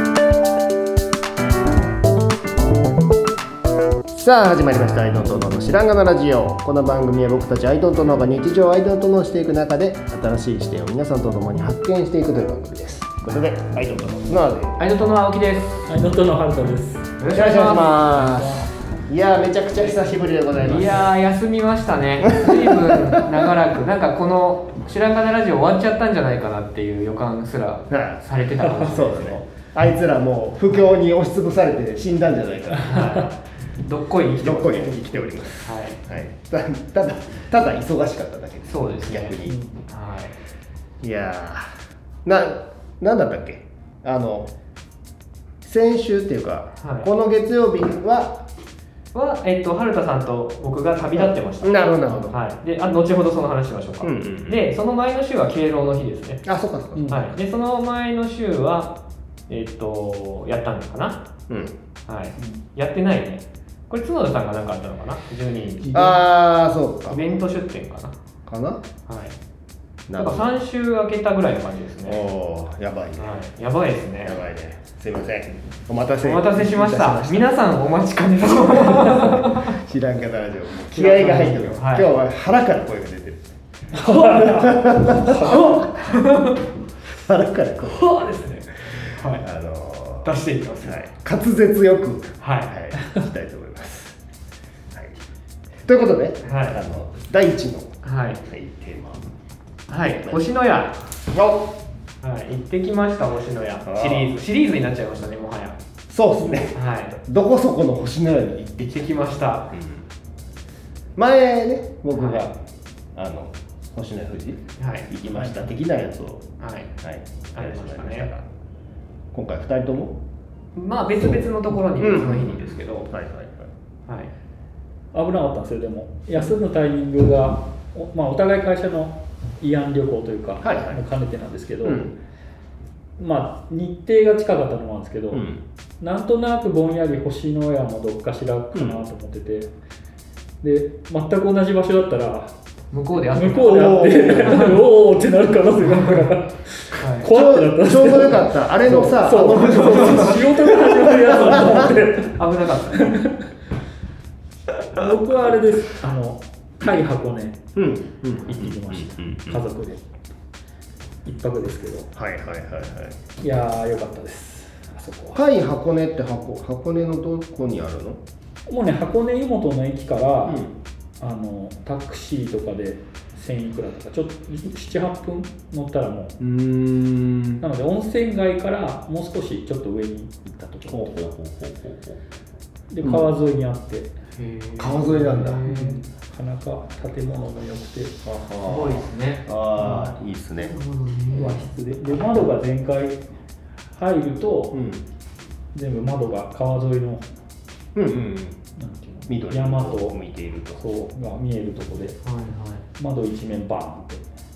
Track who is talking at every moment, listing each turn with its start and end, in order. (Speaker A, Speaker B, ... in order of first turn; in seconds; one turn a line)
Speaker A: 4.1-14.8
Speaker B: 14.8-15.9
Speaker C: 15.9-17.1
Speaker B: 17.2-18.2
Speaker A: 17.3-21.1
Speaker C: 18.1-18.6
Speaker B: 20.6-29.4
Speaker A: 22.2-23.5
Speaker A: 27.9-33.1
Speaker B: 32.7-36.0
Speaker A: 34.4-39.7
Speaker B: 38.6-40.3
Speaker C: 39.4-39.8
Speaker A: 41.0-44.5
Speaker A: 45.6-48.4
Speaker B: 46.8-47.1
Speaker B: 49.1-56.4
Speaker A: 51.1-52.4
Speaker A: 54.0-54.6
Speaker A: 56.4-57.1
Speaker C: 56.9-57.3
Speaker B: 57.1-59.0
Speaker B: 59.5-61.2
Speaker A: 61.5-61.7
Speaker B: 62.1-66.2
Speaker C: 65.8-66.1
Speaker A: 65.9-67.2
Speaker B: 67.1-68.2
Speaker A: 68.5-68.8
Speaker B: 69.0-69.4
Speaker A: 70.1-70.4
Speaker B: 70.1-72.2
Speaker A: 72.0-73.4
Speaker B: 73.2-74.4
Speaker A: 74.2-77.5
Speaker B: 76.2-79.8
Speaker A: 78.7-83.5
Speaker B: 80.9-82.2
Speaker B: 83.9-84.7
Speaker C: 83.9-85.8
Speaker A: 84.2-85.7
Speaker B: 85.3-86.7
Speaker A: 87.2-90.3
Speaker B: 87.8-89.4
Speaker B: 90.2-91.1
Speaker A: 90.8-94.2
Speaker B: 92.4-92.7
Speaker A: 95.8-99.2
Speaker B: 96.4-96.8
Speaker B: 98.0-98.4
Speaker B: 99.9-101.0
Speaker A: 100.1-100.4
Speaker A: 101.3-101.6
Speaker B: 102.2-105.8
Speaker A: 103.8-104.3
Speaker A: 106.1-109.1
Speaker B: 106.7-107.2
Speaker B: 108.9-109.7
Speaker A: 109.7-110.0
Speaker A: 111.2-112.6
Speaker B: 112.1-112.5
Speaker A: 113.1-116.4
Speaker B: 114.8-115.1
Speaker C: 115.3-115.6
Speaker B: 116.6-116.9
Speaker A: 117.0-118.4
Speaker B: 117.5-118.3
Speaker A: 119.3-120.2
Speaker B: 120.8-123.1
Speaker A: 122.0-123.7
Speaker B: 124.1-124.3
Speaker C: 125.1-132.1
Speaker A: 130.6-131.0
Speaker A: 131.8-132.1
Speaker C: 133.2-135.4
Speaker A: 135.3-135.6
Speaker C: 136.0-139.7
Speaker C: 140.6-142.5
Speaker B: 142.9-144.8
Speaker C: 143.3-153.5
Speaker A: 143.6-144.7
Speaker B: 145.8-146.3
Speaker B: 147.0-147.3
Speaker A: 147.3-151.9
Speaker B: 149.7-150.4
Speaker B: 152.3-153.1
Speaker C: 154.9-157.6
Speaker A: 157.8-159.6
Speaker C: 158.4-160.1
Speaker C: 161.2-162.1
Speaker A: 162.1-163.2
Speaker C: 163.4-165.4
Speaker A: 165.3-168.2
Speaker C: 168.7-170.6
Speaker A: 170.4-170.7
Speaker C: 171.2-176.4
Speaker A: 176.4-177.6
Speaker C: 177.6-181.2
Speaker A: 180.8-182.2
Speaker C: 182.9-184.1
Speaker A: 183.0-183.3
Speaker B: 184.3-186.1
Speaker A: 184.8-185.7
Speaker C: 185.7-188.2
Speaker A: 188.2-190.8
Speaker B: 188.6-190.2
Speaker B: 190.7-191.7
Speaker C: 191.3-193.2
Speaker C: 193.9-194.8
Speaker A: 194.7-195.0
Speaker C: 195.7-197.3
Speaker A: 197.9-198.6
Speaker C: 198.8-200.2
Speaker A: 199.3-200.8
Speaker C: 200.7-202.2
Speaker B: 202.2-202.8
Speaker C: 203.0-204.3